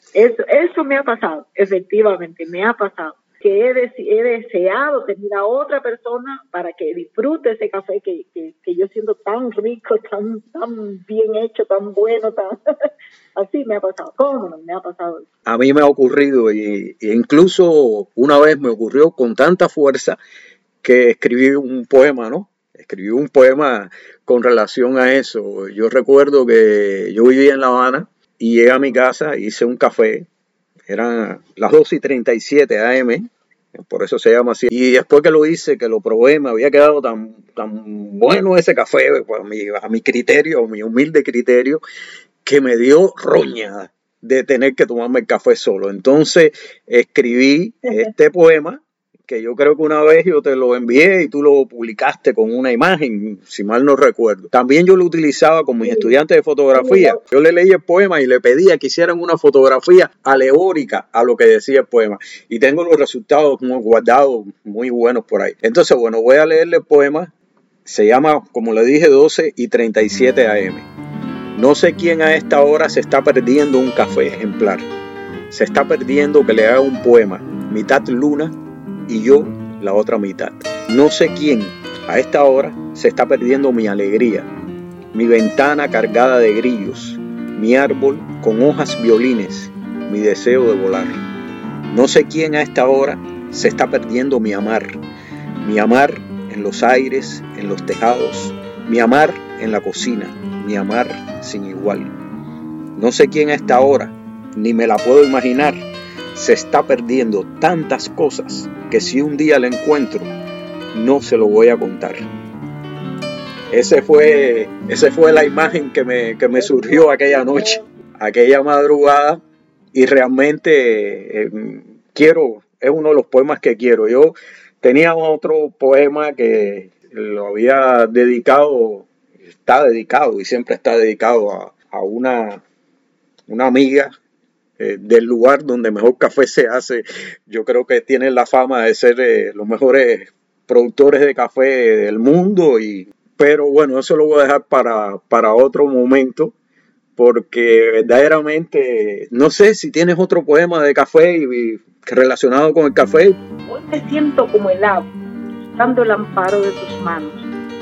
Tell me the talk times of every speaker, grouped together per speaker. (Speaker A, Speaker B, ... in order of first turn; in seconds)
Speaker A: 0.1-12.6, 13.3-15.3, 55.8-56.1, 56.7-57.2, 116.5-117.9, 153.7-155.1, 155.7-157.5
Speaker B: 15.5-20.2, 20.8-30.3, 30.9-33.2, 33.8-41.8, 42.4-67.3, 67.8-70.9, 71.6-74.9, 75.5-78.5, 79.1-84.5, 85.1-91.2, 91.9-94.9, 95.6-102.1, 103.0-110.3, 110.9-112.2, 113.7-119.4, 119.9-132.6, 133.5-134.1, 134.8-146.5, 147.2-153.4